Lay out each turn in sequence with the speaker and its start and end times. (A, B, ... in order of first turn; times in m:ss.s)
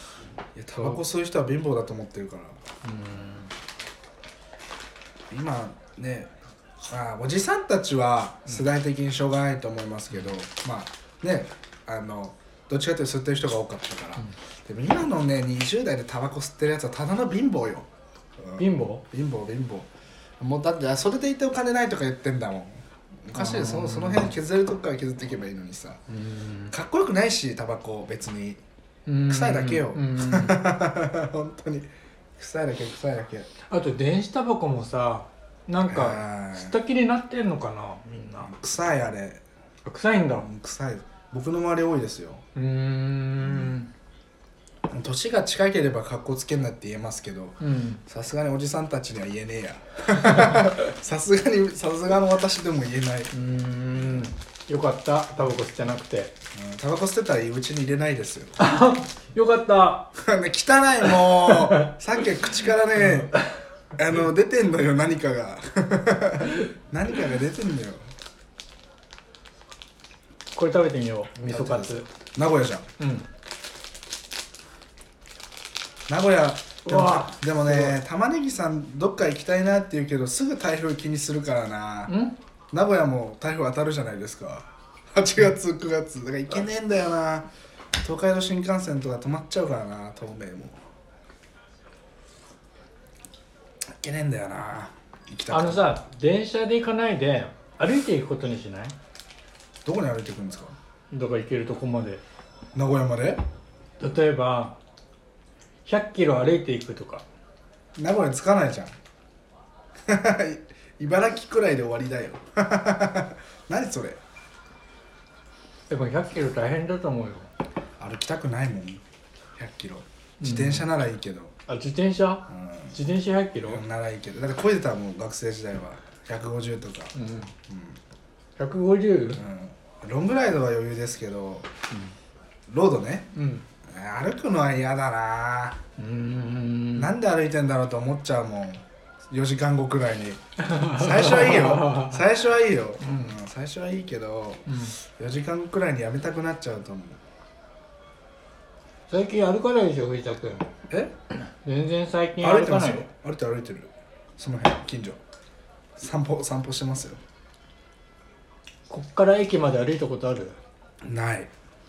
0:00.6-0:02.6 A
0:00.8-0:01.0 B
0:02.8-0:03.5 B
0:05.3-0:06.3 A
0:06.9-0:17.9 A
0:18.4-0:19.9 A
0:18.6-0:19.0 B
0:20.4-0:26.0 A
0:23.4-0:24.3 B
0:26.1-0:26.7 B
0:26.7-0:28.6 A
0:29.1-0:30.8 B
0:29.3-0:33.5 A
0:33.7-0:38.5 B
0:35.9-0:36.7 A
0:38.5-0:39.4 A
0:39.8-0:40.5 B
0:40.4-0:42.4 A
0:42.6-0:43.9 B
0:44.9-0:53.3 A
0:47.6-0:48.0 B
0:50.3-0:50.7 B
0:53.3-0:56.3 B
0:56.5-0:58.6 A
0:58.6-1:00.1 B
1:00.2-1:03.4 A
1:01.0-1:01.9 B
1:03.0-1:03.5 B
1:04.0-1:08.1 A
1:10.5-1:12.1 B
1:11.5-1:12.9 A
1:13.0-1:13.3 B
1:16.1-1:22.2 A
1:16.8-1:18.0 B
1:22.1-1:22.4 B
1:22.7-1:27.5 A
1:28.0-1:30.8 A
1:34.0-1:35.9 A
1:35.5-1:39.0 B
1:39.8-1:40.8 A
1:41.1-1:42.2 B
1:42.8-1:43.4 A
1:44.0-1:44.8 B
1:45.8-1:47.2 B
1:48.0-1:48.9 A
1:50.1-1:54.2 A
1:55.9-1:57.5 B
1:58.0-1:59.0 A
1:59.6-2:01.5 A
2:00.4-2:00.9 B
2:01.7-2:03.8 B
2:02.5-2:02.9 A
2:03.7-2:07.2 A
2:07.1-2:07.5 B
2:07.7-2:08.0 A
2:08.6-2:09.4 B
2:09.3-2:11.7 A
2:12.7-2:13.3 A
2:13.3-2:13.6 B
2:13.9-2:15.8 A
2:16.0-2:17.1 B
2:17.0-2:27.2 A
2:20.6-2:22.4 B
2:23.0-2:23.3 B
2:24.7-2:25.0 B
2:29.1-2:30.7 B
2:31.6-2:33.1 B
2:32.4-2:35.2 A
2:36.0-2:37.2 A
2:38.9-2:40.6 B
2:41.0-2:41.5 A